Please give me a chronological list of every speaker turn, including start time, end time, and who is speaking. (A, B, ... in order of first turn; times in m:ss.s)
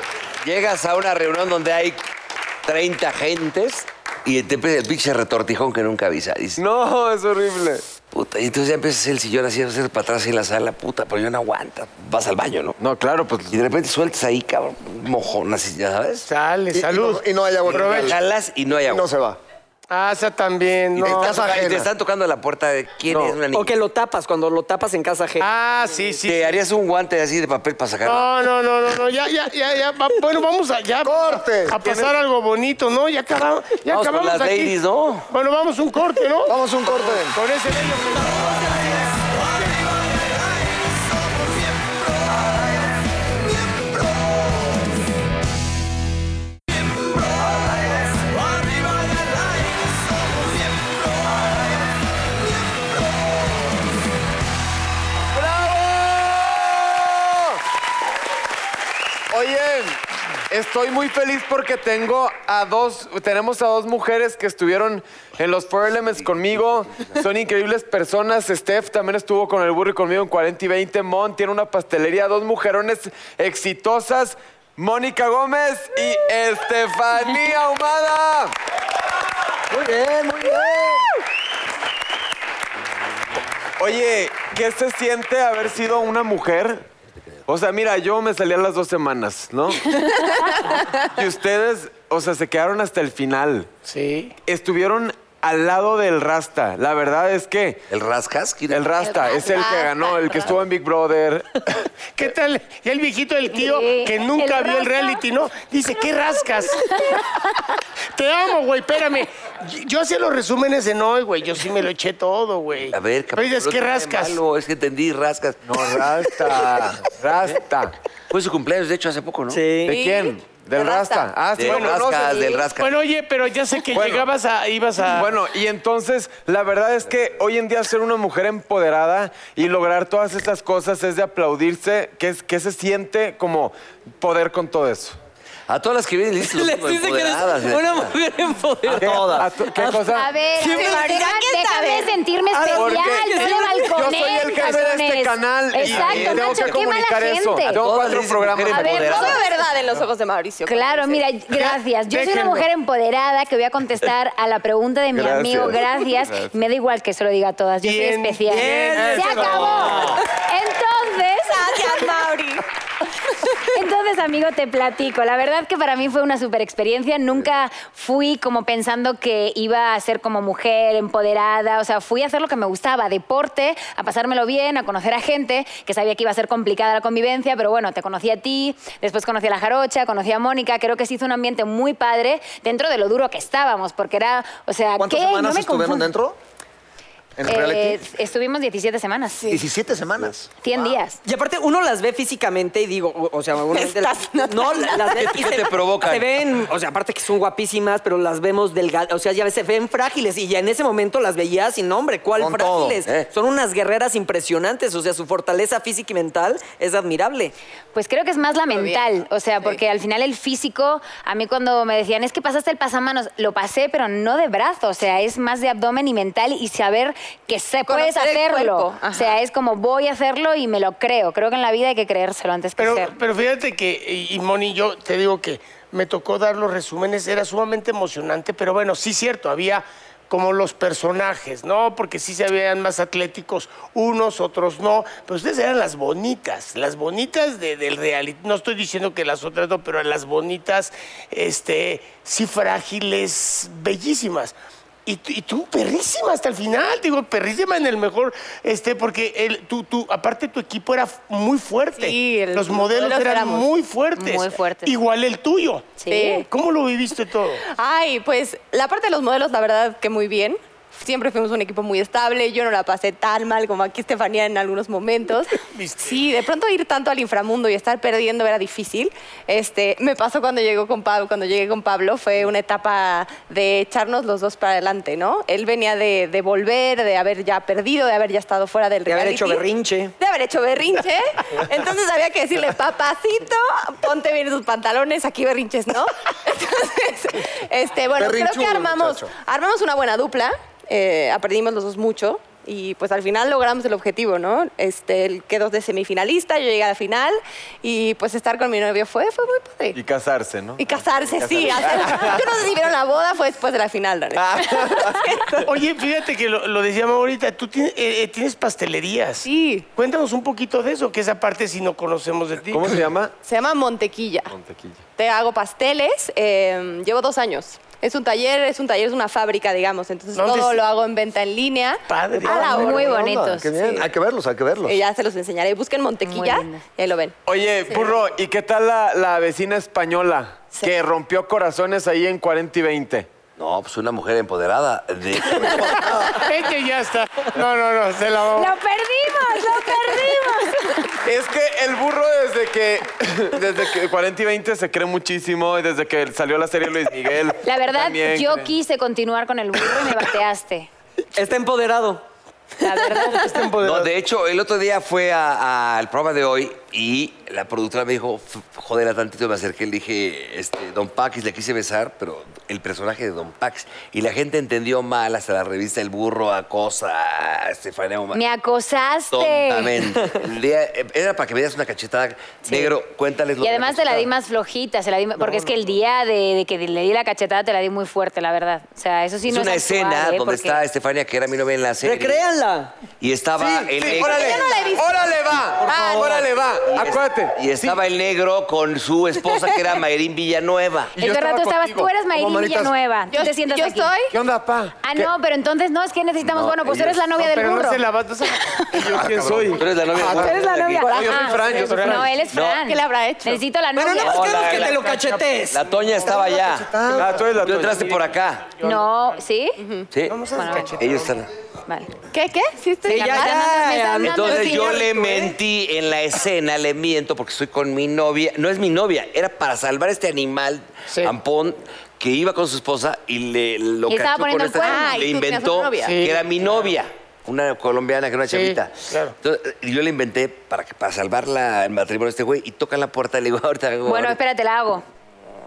0:00.4-0:02.0 A
0:02.6-0:06.6 A
0:06.6-0:07.8 B
0:08.1-0:12.8 A
0:12.8-0:13.5 B
0:13.5-0:16.3 A
0:16.3-0:18.2 C
0:16.7-0:18.2 D
0:17.6-0:19.1 A
0:18.8-0:19.4 D
0:19.9-0:21.7 C
0:20.9-0:23.7 A
0:21.0-0:21.9 D
0:23.1-0:23.4 B
0:23.5-0:25.5 E
0:25.4-0:26.6 C
0:26.2-0:28.3 A
0:28.0-0:34.7 C
0:31.0-0:32.1 D
0:33.9-0:35.3 A
0:35.3-0:39.6 C
0:36.4-0:37.4 D
0:55.3-0:57.6 B
0:59.3-1:00.0 B
1:00.5-1:18.5 B
1:19.7-1:20.9 E
1:19.9-1:21.0 D
1:23.8-1:26.8 B
1:27.5-1:30.0 B
1:30.9-1:33.7 B
1:33.8-1:34.3 C
1:34.4-1:37.8 B
1:37.9-1:39.0 A
1:38.7-1:41.7 B
1:39.1-1:40.5 F
1:42.1-1:47.2 C
1:43.5-1:45.2 G
1:46.8-1:47.3 G
1:48.1-1:54.4 C
1:52.9-1:56.8 A
1:55.6-1:57.9 B
1:58.3-1:59.6 A
1:59.5-1:59.9 E
1:59.9-2:02.4 B
1:59.9-2:01.3 F
2:01.6-2:02.9 A
2:01.6-2:05.4 C
2:03.9-2:04.3 B
2:05.1-2:15.2 B
2:15.7-2:18.1 A
2:16.4-2:20.0 E
2:18.9-2:19.4 A
2:19.0-2:20.3 B
2:20.0-2:27.8 G
2:20.6-2:21.1 E
2:20.6-2:22.1 F
2:22.5-2:23.9 E
2:22.7-2:28.9 B
2:25.8-2:26.8 A
2:27.7-2:29.4 A
2:28.7-2:29.4 G
2:28.9-2:31.3 F
2:30.7-2:42.1 G
2:31.6-2:32.7 C
2:35.1-2:35.8 B
2:37.8-2:40.1 C
2:38.5-2:40.2 E
2:41.4-2:42.6 F
2:43.7-3:06.1 G
3:05.0-3:06.4 D
3:07.4-3:08.0 D
3:07.5-3:09.5 G
3:09.5-3:10.5 D
3:10.6-3:11.2 G
3:11.2-3:27.5 E
3:13.7-3:15.3 F
3:15.1-3:16.3 A
3:22.4-3:23.0 D
3:27.9-3:43.1 G
3:28.7-3:29.0 F
3:37.8-3:39.4 F
3:42.8-4:04.5 C
4:05.0-4:17.6 C
4:12.0-4:13.7 F
4:14.2-4:15.0 G
4:16.0-4:16.4 G
4:16.1-4:16.4 F
4:17.6-4:39.6 F
4:25.7-4:26.1 C
4:39.0-4:40.1 E
4:40.2-5:00.0 F
4:48.1-4:49.3 D
4:59.9-5:02.5 B
5:00.8-5:05.6 F
5:04.3-5:05.3 B
5:05.6-5:13.0 C
5:09.4-5:09.8 F
5:12.7-5:13.3 B
5:13.4-5:14.5 F
5:14.5-5:15.0 B
5:15.2-5:23.2 F
5:20.3-5:20.8 C
5:22.1-5:23.1 C
5:22.4-5:25.0 D
5:22.5-5:23.7 G
5:23.7-5:24.1 F
5:24.8-5:27.4 F
5:26.2-5:26.8 G
5:27.4-5:33.3 B
5:33.6-5:36.2 A
5:35.6-5:36.3 D
5:36.3-5:38.7 C
5:38.5-5:41.1 G
5:41.2-5:48.7 B
5:47.6-5:50.9 G
5:51.3-5:52.2 E
5:52.8-5:53.6 G
5:53.2-5:54.1 C
5:53.8-6:08.4 A
6:08.3-6:10.0 G
6:09.3-6:14.3 A
6:12.6-6:13.0 G
6:13.6-6:20.8 G
6:19.5-6:22.4 A
6:22.0-6:22.9 E
6:23.2-6:24.7 A
6:23.6-6:28.0 B
6:24.0-6:26.5 F
6:25.9-6:26.2 A
6:26.9-6:31.1 A
6:31.2-6:32.1 B
6:31.2-6:34.1 G
6:32.3-6:32.9 D
6:33.3-6:34.3 F
6:34.3-6:35.3 B
6:35.0-6:38.0 G
6:36.5-6:37.2 A
6:37.4-6:39.8 C
6:38.6-6:39.1 G
6:39.0-6:42.3 B
6:39.7-6:41.2 A
6:40.2-6:44.5 G
6:41.0-6:43.6 F
6:41.8-6:42.2 C
6:42.5-6:42.8 A
6:44.0-6:45.8 E
6:44.2-6:45.0 A
6:44.6-6:45.4 C
6:45.7-6:48.7 A
6:46.4-6:47.3 D
6:47.0-6:48.2 B
6:48.8-6:49.8 G
6:49.8-6:50.1 F
6:50.1-6:51.5 A
6:50.2-6:51.3 C
6:50.5-6:51.0 G
6:51.9-6:52.1 G
6:52.3-6:55.0 F
6:53.0-6:55.1 E
6:53.1-6:55.2 G
6:54.2-7:14.4 A
7:04.1-7:05.2 G
7:04.8-7:06.2 F
7:06.0-7:06.4 C
7:08.5-7:09.3 C
7:14.0-7:15.0 G